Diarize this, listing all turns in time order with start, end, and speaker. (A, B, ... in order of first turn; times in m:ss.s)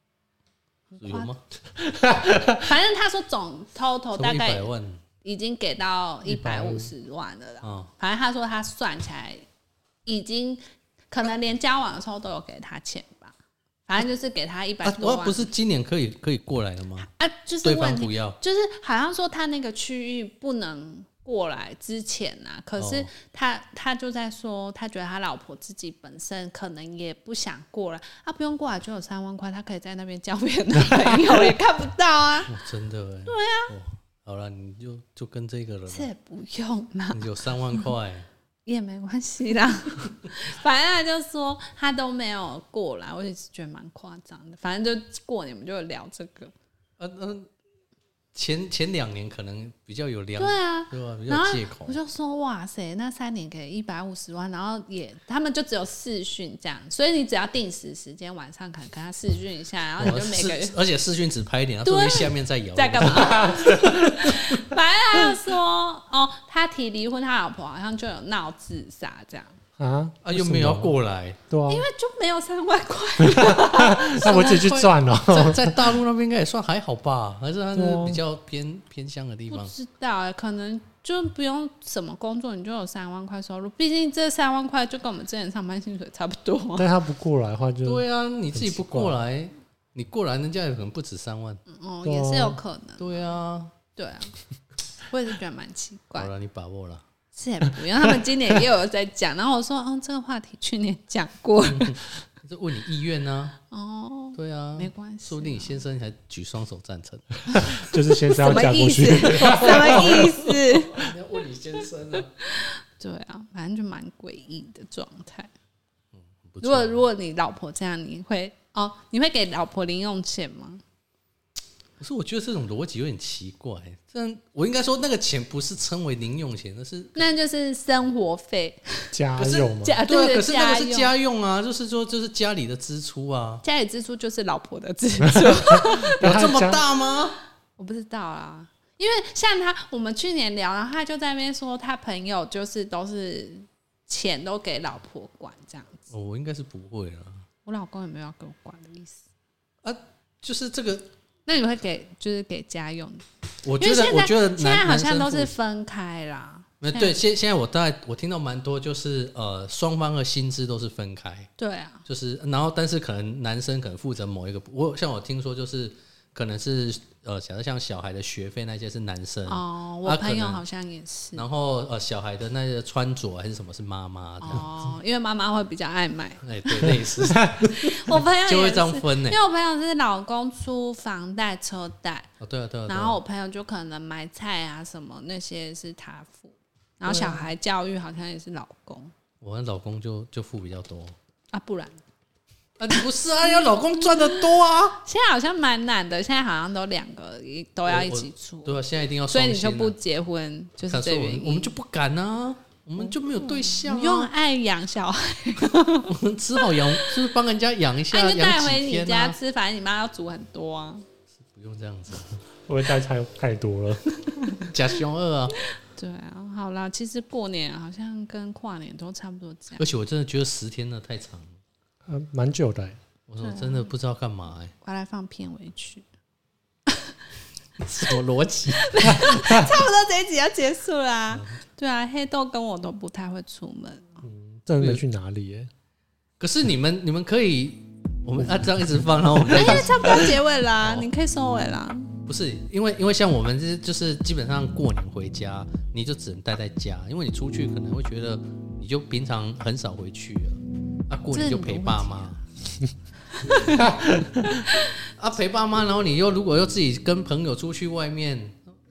0:00.9-0:01.3 A
0:01.0-0:01.4 B
0:01.9-0:02.6 C
0:02.5-0:04.7 A
0:04.1-0:05.0 B
0:05.2-0:09.4 A
0:06.3-0:06.9 C
0:07.6-0:07.9 B
0:10.0-0:13.3 A
0:13.9-0:15.5 A
0:14.8-0:17.1 B
0:17.0-0:32.5 A
0:17.6-0:18.4 B
0:22.8-0:23.1 B
0:32.5-0:36.1 B
0:33.3-0:33.7 A
0:35.9-0:37.4 A
0:37.1-0:38.3 B
0:38.6-0:46.5 A
0:47.0-0:47.5 B
0:48.3-0:52.0 B
0:50.4-1:00.7 A
1:00.0-1:04.6 B
1:01.8-1:09.6 A
1:09.8-1:10.9 C
1:10.2-1:11.4 B
1:11.5-1:11.8 C
1:11.7-1:14.8 A
1:13.3-1:15.8 C
1:14.1-1:19.7 B
1:17.7-1:18.2 C
1:19.5-1:26.9 A
1:26.8-1:29.2 C
1:27.8-1:31.6 B
1:31.7-1:33.2 A
1:32.0-1:32.6 C
1:33.0-1:33.7 B
1:34.0-1:34.3 A
1:35.1-1:36.3 A
1:36.2-1:37.0 B
1:37.3-1:42.0 A
1:41.6-1:43.6 B
1:43.7-1:45.8 A
1:44.4-1:47.8 B
1:47.6-1:50.2 C
1:48.4-1:51.1 A
1:49.1-1:52.3 B
1:52.4-1:55.5 A
1:56.1-1:57.0 B
1:56.6-2:00.8 A
2:02.0-2:07.2 B
2:07.2-2:09.1 A
2:09.1-2:10.0 C
2:09.4-2:13.6 B
2:09.8-2:11.1 A
2:13.6-2:16.4 A
2:15.2-2:16.8 C
2:16.2-2:17.4 B
2:17.8-2:26.0 A
2:26.1-2:27.4 B
2:27.6-2:29.2 A
2:29.8-2:31.1 B
2:31.4-2:33.2 A
2:33.6-2:35.5 B
2:33.8-2:37.2 A
2:36.8-2:41.5 B
2:41.6-2:42.0 A
2:42.0-2:50.6 B
2:49.5-2:51.4 A
2:51.3-2:54.7 B
2:54.4-3:02.3 A
2:56.4-2:59.4 B
3:02.4-3:03.2 B
3:02.9-3:09.1 A
3:07.0-3:07.4 B
3:09.4-3:11.1 B
3:11.5-3:12.0 A
3:12.8-3:15.0 B
3:12.9-3:21.7 A
3:17.8-3:20.0 B
3:20.9-3:24.3 B
3:23.0-3:27.2 A
3:26.1-3:29.4 B
3:28.1-3:31.0 A
3:31.4-3:32.4 B
3:32.7-3:34.2 C
3:34.7-3:35.5 B
3:35.9-3:39.8 A
3:39.8-3:41.5 B
3:42.1-3:43.0 C
3:43.3-3:44.7 B
3:43.4-3:43.9 A
3:44.8-3:46.0 A
3:46.9-3:47.1 A
3:47.8-3:49.3 B
3:48.7-3:54.2 A
3:54.2-3:55.7 C
3:56.4-4:01.1 B
3:59.5-4:02.1 A
4:02.3-4:12.4 B
4:11.3-4:12.3 A
4:13.3-4:13.9 A
4:13.8-4:14.1 B
4:13.8-4:14.2 C
4:14.4-4:14.9 A
4:15.2-4:18.6 B